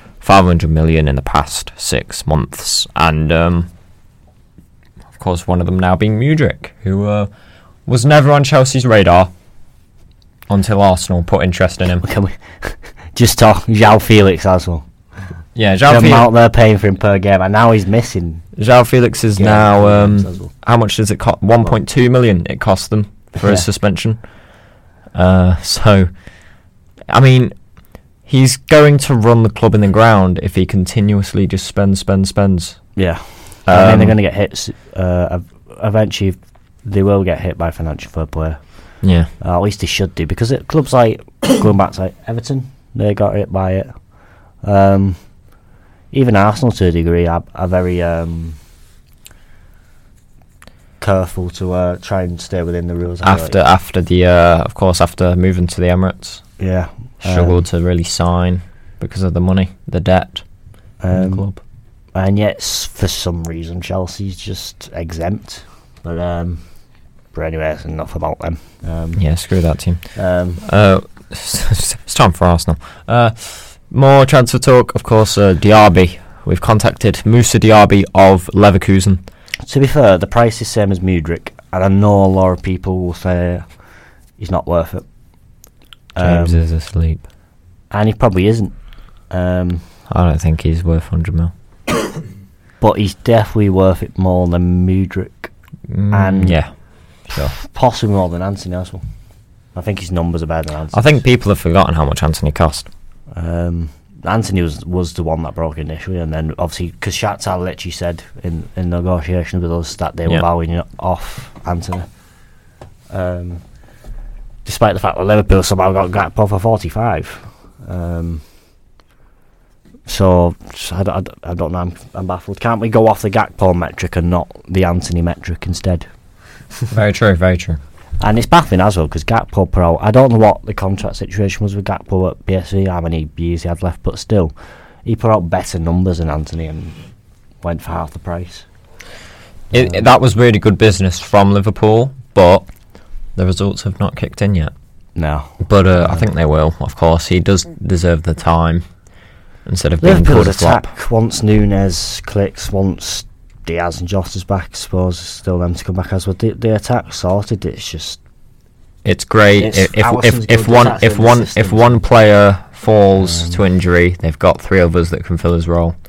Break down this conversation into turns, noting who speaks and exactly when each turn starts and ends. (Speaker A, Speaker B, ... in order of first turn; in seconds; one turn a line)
Speaker A: 0.2-3.7
Speaker A: 5.1-7.3
Speaker A: 7.8-9.3
Speaker A: 10.5-12.0
Speaker B: 12.0-14.9
Speaker A: 15.5-16.3
Speaker B: 15.8-18.4
Speaker A: 18.6-24.2
Speaker B: 19.4-20.5
Speaker B: 23.4-23.6
Speaker A: 25.1-26.1
Speaker A: 27.1-27.5
Speaker A: 28.2-32.8
Speaker B: 33.0-44.0
Speaker A: 33.7-34.1
Speaker A: 39.0-39.3
Speaker B: 44.6-45.2
Speaker B: 46.1-48.6
Speaker B: 51.0-53.5
Speaker A: 53.2-56.4
Speaker B: 56.6-57.6
Speaker A: 57.2-60.4
Speaker B: 61.0-61.5
Speaker A: 61.1-61.6
Speaker B: 62.1-66.6
Speaker B: 67.3-69.2
Speaker A: 69.2-70.1
Speaker B: 70.1-70.6
Speaker A: 70.6-79.2
Speaker B: 79.7-83.7
Speaker B: 84.4-85.0
Speaker B: 86.1-86.6
Speaker A: 86.2-87.2
Speaker B: 87.9-88.7
Speaker B: 89.3-89.8
Speaker A: 90.1-91.5
Speaker B: 92.8-95.5
Speaker A: 95.9-97.5
Speaker B: 96.1-96.8
Speaker B: 97.5-99.0
Speaker B: 99.7-101.2
Speaker A: 100.9-102.9
Speaker B: 103.3-112.1
Speaker B: 113.1-113.6
Speaker B: 114.6-118.4
Speaker B: 120.0-126.0
Speaker A: 126.9-127.8
Speaker B: 128.2-134.5
Speaker B: 135.0-137.0
Speaker B: 137.6-138.7
Speaker A: 139.7-142.7
Speaker B: 139.7-140.0
Speaker A: 143.3-144.7
Speaker B: 145.2-146.3
Speaker A: 145.6-148.8
Speaker A: 149.7-150.9
Speaker B: 150.0-158.2
Speaker A: 159.0-165.9
Speaker B: 159.6-162.0
Speaker B: 163.2-163.6